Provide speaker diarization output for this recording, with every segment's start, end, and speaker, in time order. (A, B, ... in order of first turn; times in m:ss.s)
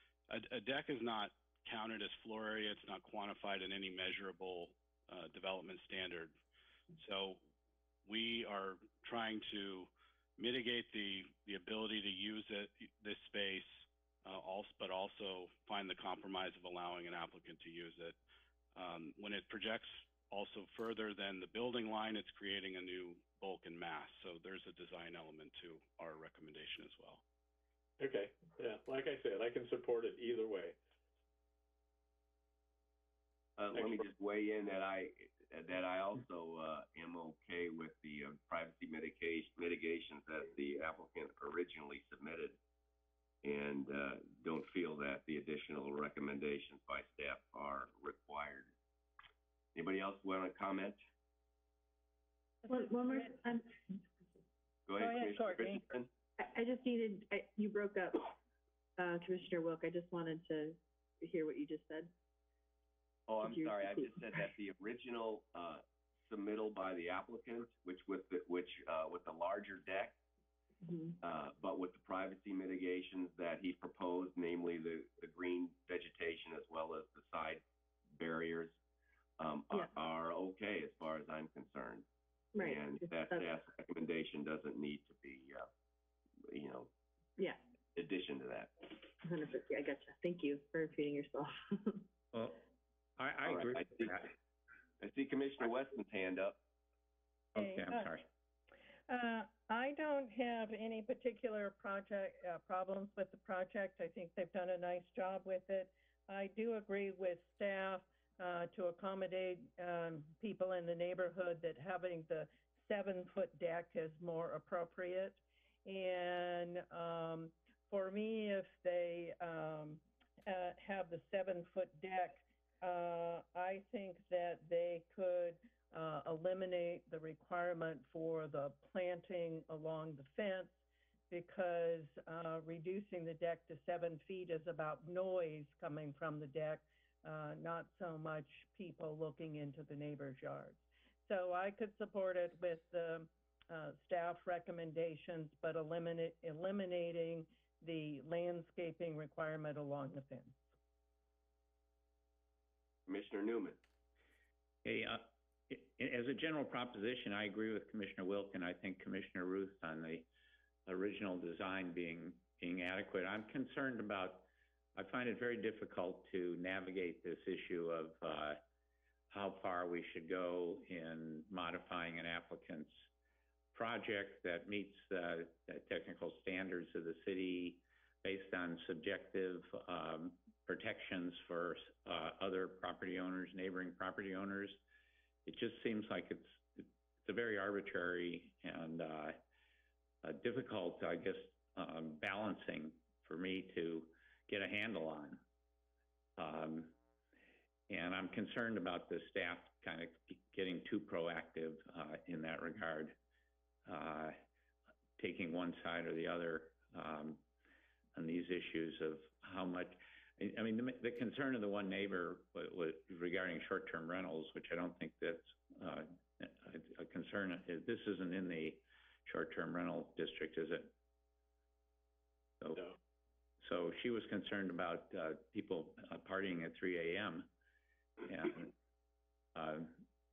0:00.3-0:06.3 A
0:06.9-0:07.4 A
0:08.0-0:18.2 A
0:18.8-0:27.2 A
0:28.0-0:30.8 B
0:33.6-0:42.6 C
0:43.4-0:48.7 C
0:49.8-0:51.0 C
0:52.7-0:53.4 D
0:52.7-0:53.5 E
0:54.9-0:56.1 C
0:55.0-0:55.8 D
0:56.4-0:58.4 E
0:59.0-1:02.1 E
1:03.3-1:10.2 C
1:03.4-1:04.5 E
1:10.8-1:11.2 E
1:11.2-1:18.8 C
1:19.4-1:22.1 C
1:22.5-1:23.5 E
1:22.6-1:25.7 C
1:26.5-1:26.9 C
1:28.0-1:28.7 C
1:29.2-1:32.1 E
1:32.3-1:32.6 F
1:33.2-1:34.3 F
1:33.4-1:34.3 C
1:35.0-1:36.6 C
1:37.6-1:38.1 D
1:37.6-1:38.3 F
1:39.1-2:10.8 D
2:11.3-2:30.6 D
2:33.1-2:33.8 C
2:34.8-2:40.3 F
2:40.9-2:48.6 F
2:49.3-2:53.1 F
2:53.7-3:04.8 F
3:05.5-3:09.4 F
3:10.2-3:15.4 F
3:16.4-3:17.0 F
3:17.9-3:23.2 F
3:23.9-3:24.4 F
3:25.2-3:27.4 F
3:28.2-3:40.9 F
3:43.6-3:47.5 F
3:48.3-3:48.7 F
3:49.6-3:50.0 F